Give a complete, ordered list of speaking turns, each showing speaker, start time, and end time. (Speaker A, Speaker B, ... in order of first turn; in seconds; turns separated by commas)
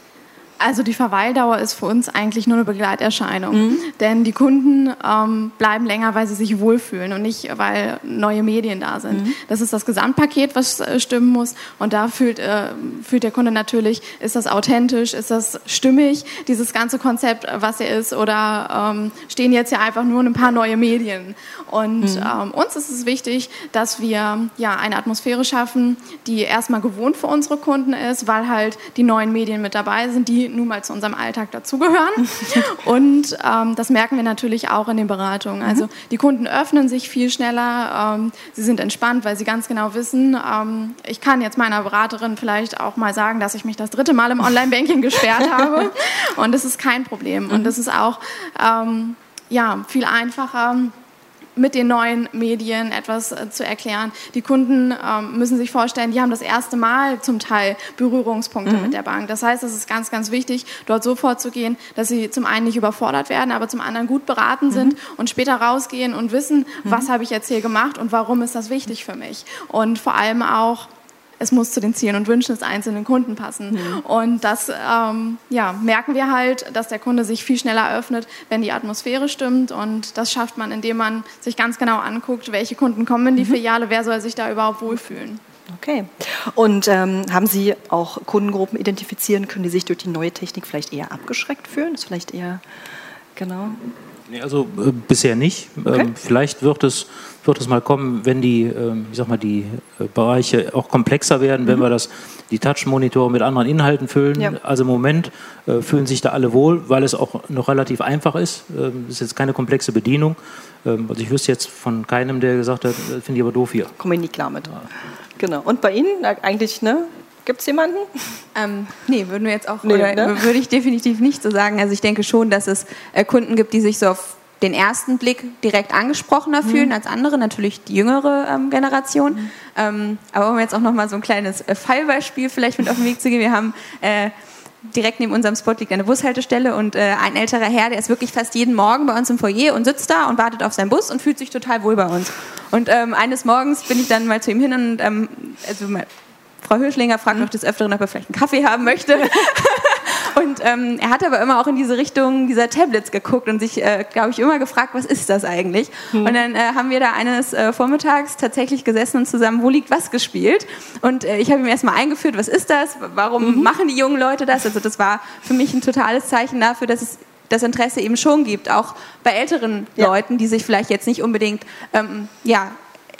Speaker A: 0.6-50.9, Speaker B: 3.5-3.8, Speaker B: 9.1-9.4, Speaker B: 22.0-22.3, Speaker A: 51.6-85.4, Speaker B: 58.6-59.0, Speaker B: 64.7-65.0, Speaker B: 73.7-74.0, Speaker B: 85.7-92.6, Speaker B: 93.3-93.8, Speaker C: 94.3-113.9, Speaker B: 114.0-118.4, Speaker D: 118.5-146.1, Speaker B: 119.8-120.5, Speaker B: 126.6-126.9, Speaker D: 146.6-172.7, Speaker B: 156.1-156.4, Speaker B: 163.4-163.7